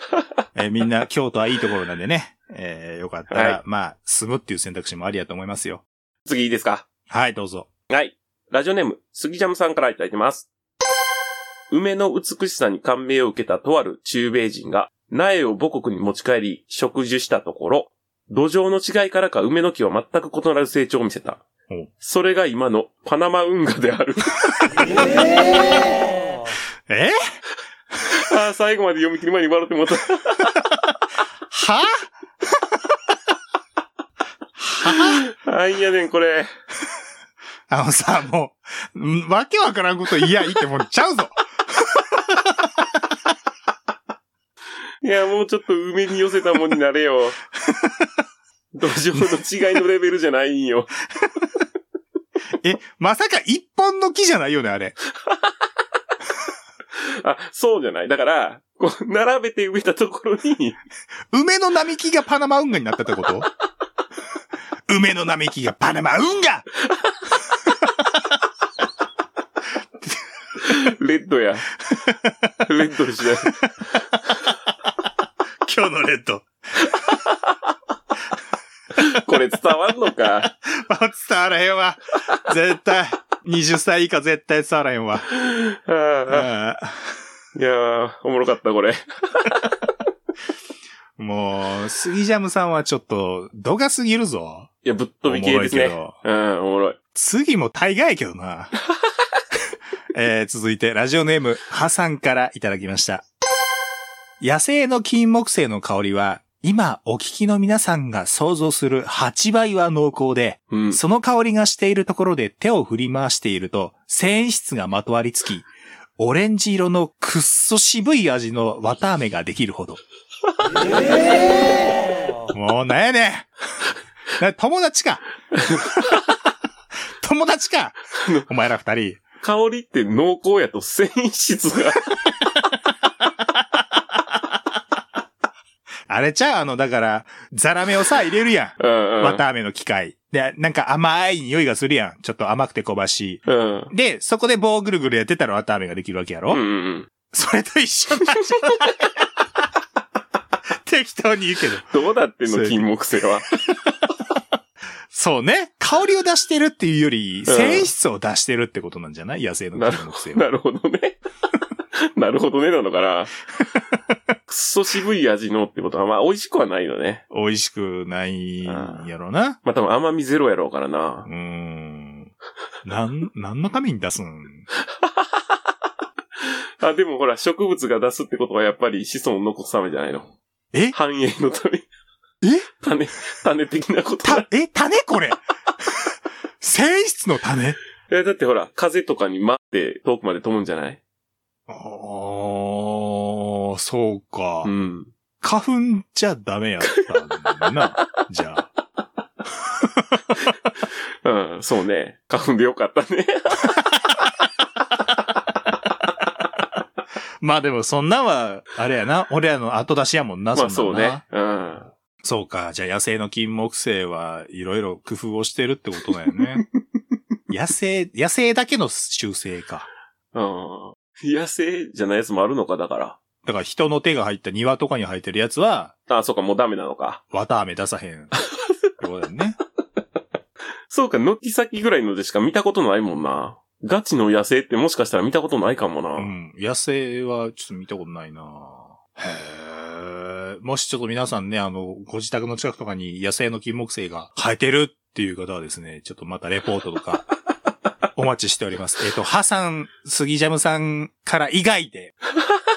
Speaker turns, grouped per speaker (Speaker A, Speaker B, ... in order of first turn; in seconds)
Speaker A: 0.5-5.8, 7.1-7.7, 26.9-27.2, 31.5-32.1, 34.6-35.2, 37.7-42.9, 47.6-48.1, 52.6-55.0, 61.3-63.5, 64.9-66.7, 71.8-72.5, 75.6-76.5, 80.4-85.3, 86.3-87.1, 91.2-94.7, 95.2-96.1, 97.1-98.7, 100.1-103.2, 104.4-120.0, 122.5-123.5, 124.4-125.2, 127.2-129.2, 136.1-146.6, 147.3-149.1, 150.8-151.9, 152.5-152.8, 155.1-160.5, 167.3-169.6, 171.2-172.3, 172.8-174.7, 182.4-182.7, 184.2-187.8, 191.7-194.7, 195.4-198.7, 199.6-200.4, 207.4-211.2, 212.2-216.6, 217.5-219.9, 223.4-225.9, 227.3-228.3, 229.0-229.6, 236.2-247.3, 248.1-252.1
Speaker B: 3.3-3.6, 6.2-6.8, 7.9-10.5, 11.7-21.4, 22.0-24.3, 28.1-30.6, 34.9-36.5, 45.0-47.4, 48.7-51.0, 57.0-60.8, 70.6-71.7, 72.6-73.6, 78.9-80.5, 85.3-86.5, 87.5-89.7, 94.8-97.0, 110.7-111.0, 125.5-126.2, 128.2-128.4, 129.4-132.1, 138.8-139.4, 143.5-143.9, 146.5-147.1, 151.9-153.5, 157.5-157.9, 159.8-161.2, 161.9-163.3, 164.5-167.2, 168.7-169.1, 169.6-171.3, 176.8-180.3, 180.9-181.9, 182.8-184.4, 188.1-191.0, 194.6-195.1, 196.9-197.9, 201.2-203.7, 210.5-211.9, 220.3-223.2, 226.1-227.2, 230.9-236.3